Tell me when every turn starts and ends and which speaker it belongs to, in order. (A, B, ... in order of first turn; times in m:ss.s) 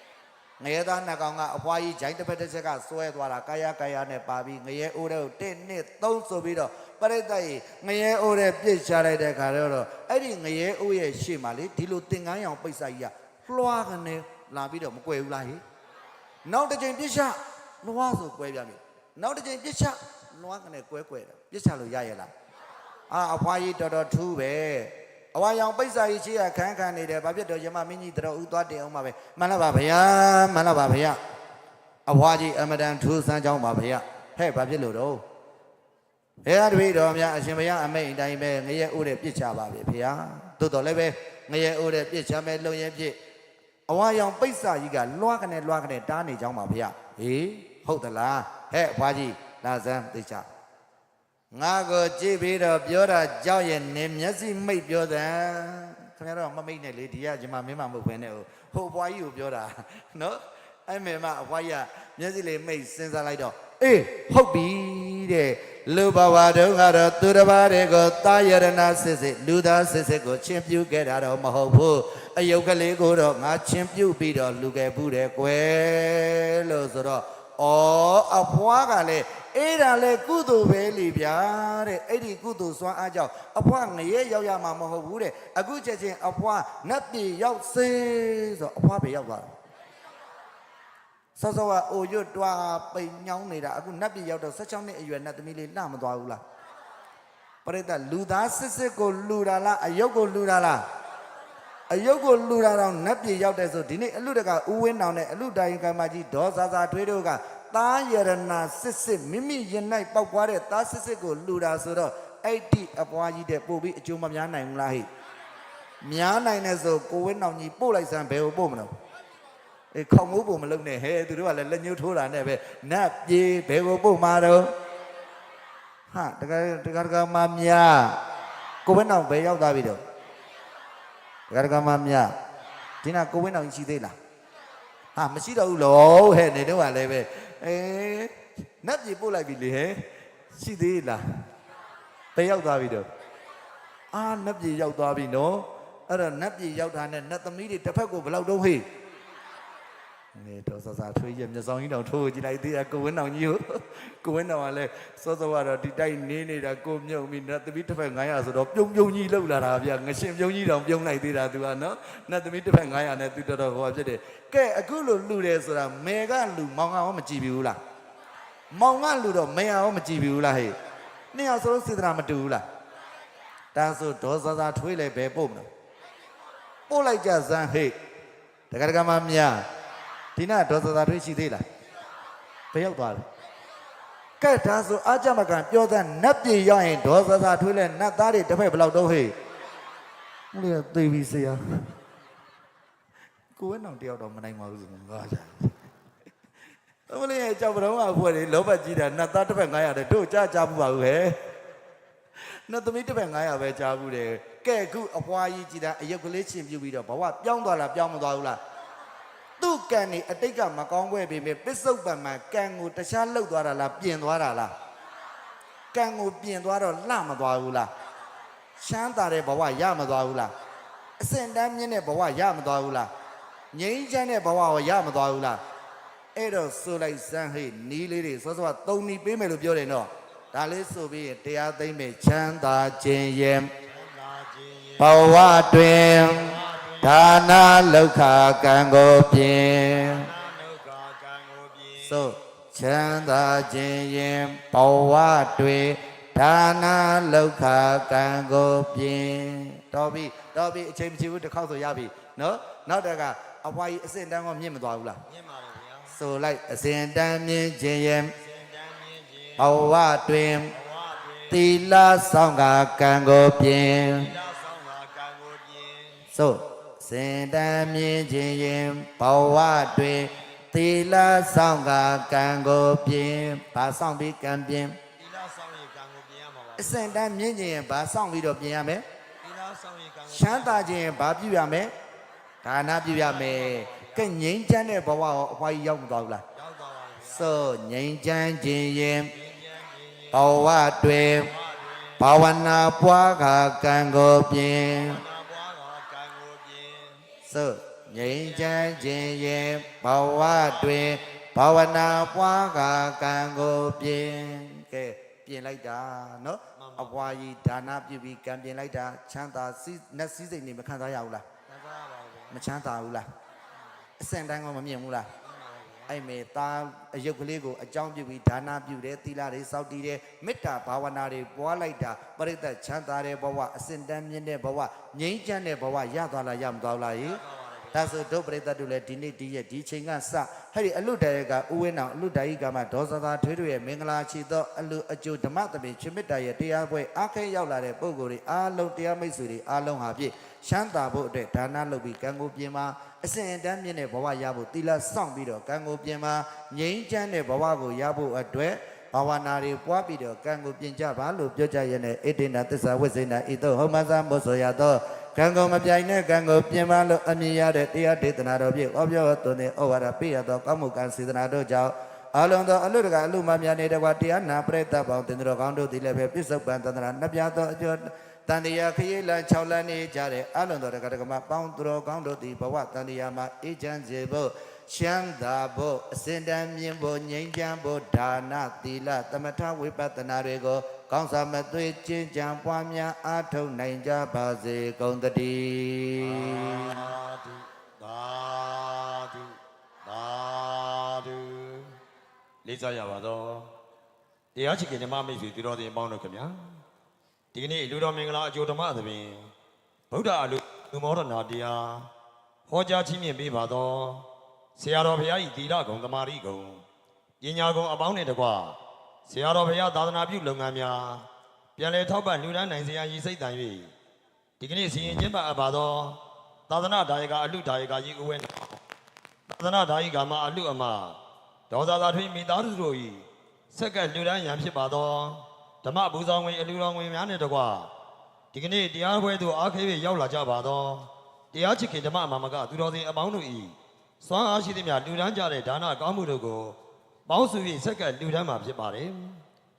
0:00.6-0:15.6 A
0:16.4-0:22.3 A
0:23.1-0:31.2 A
0:32.1-0:35.2 A
0:36.4-0:43.2 A
0:43.9-0:50.4 A
0:51.5-1:29.5 A
1:31.4-1:36.4 A
1:37.6-1:40.8 A
1:41.9-1:55.1 A
1:56.0-1:58.9 A
1:59.9-2:04.7 A
2:06.1-2:08.2 A
2:08.8-2:10.0 A
2:11.5-2:12.3 A
2:13.0-2:14.2 A
2:15.1-2:21.2 A
2:22.3-2:23.1 A
2:24.1-2:28.9 A
2:30.3-2:47.8 A
2:48.7-2:50.8 A
2:51.3-2:52.6 A
2:53.7-2:55.7 A
2:56.9-2:58.0 A
2:58.7-2:59.7 A
3:00.4-3:01.6 A
3:02.7-3:03.2 A
3:04.4-3:09.3 A
3:10.5-3:11.9 A
3:13.6-3:15.7 A
3:17.1-3:21.4 A
3:22.7-3:28.6 A
3:29.6-3:34.7 A
3:35.9-3:37.9 A
3:38.8-3:40.5 A
3:41.2-3:43.1 A
3:43.7-3:45.6 A
3:46.3-3:53.7 A
3:53.8-3:57.7 B
3:55.0-4:00.3 A
3:59.9-4:02.3 B
4:02.0-4:15.2 A
4:15.2-4:16.2 B
4:16.1-4:18.3 A
4:18.4-4:19.8 B
4:19.6-4:20.7 A
4:20.7-4:21.7 B
4:21.5-4:24.3 A
4:24.0-4:26.3 B
4:26.3-4:35.0 A
4:35.2-4:37.2 B
4:36.8-4:39.0 A
4:39.4-4:41.0 B
4:40.3-4:41.9 A
4:42.6-4:46.4 A
4:43.1-4:44.4 B
4:46.5-4:47.6 B
4:47.2-4:49.3 A
4:49.3-4:50.6 B
4:50.3-4:51.5 A
4:51.3-4:52.3 B
4:52.2-4:55.2 A
4:54.9-4:57.2 B
4:57.4-5:11.4 A
4:58.1-5:01.0 B
5:06.8-5:07.4 B
5:11.7-5:12.7 B
5:12.5-5:13.2 A
5:14.2-5:15.3 A
5:15.4-5:16.2 B
5:16.1-5:27.4 A
5:27.2-5:28.2 B
5:27.9-6:27.0 A
6:26.2-6:32.0 B
6:32.6-6:33.7 B
6:34.5-6:36.8 B
6:37.5-6:39.5 B
6:40.1-6:42.1 B
6:42.7-6:46.8 B
6:47.4-6:51.2 B
6:51.8-6:53.9 B
6:54.6-6:58.8 B
6:59.5-7:01.2 B
7:01.7-7:07.9 B
7:08.5-7:19.4 B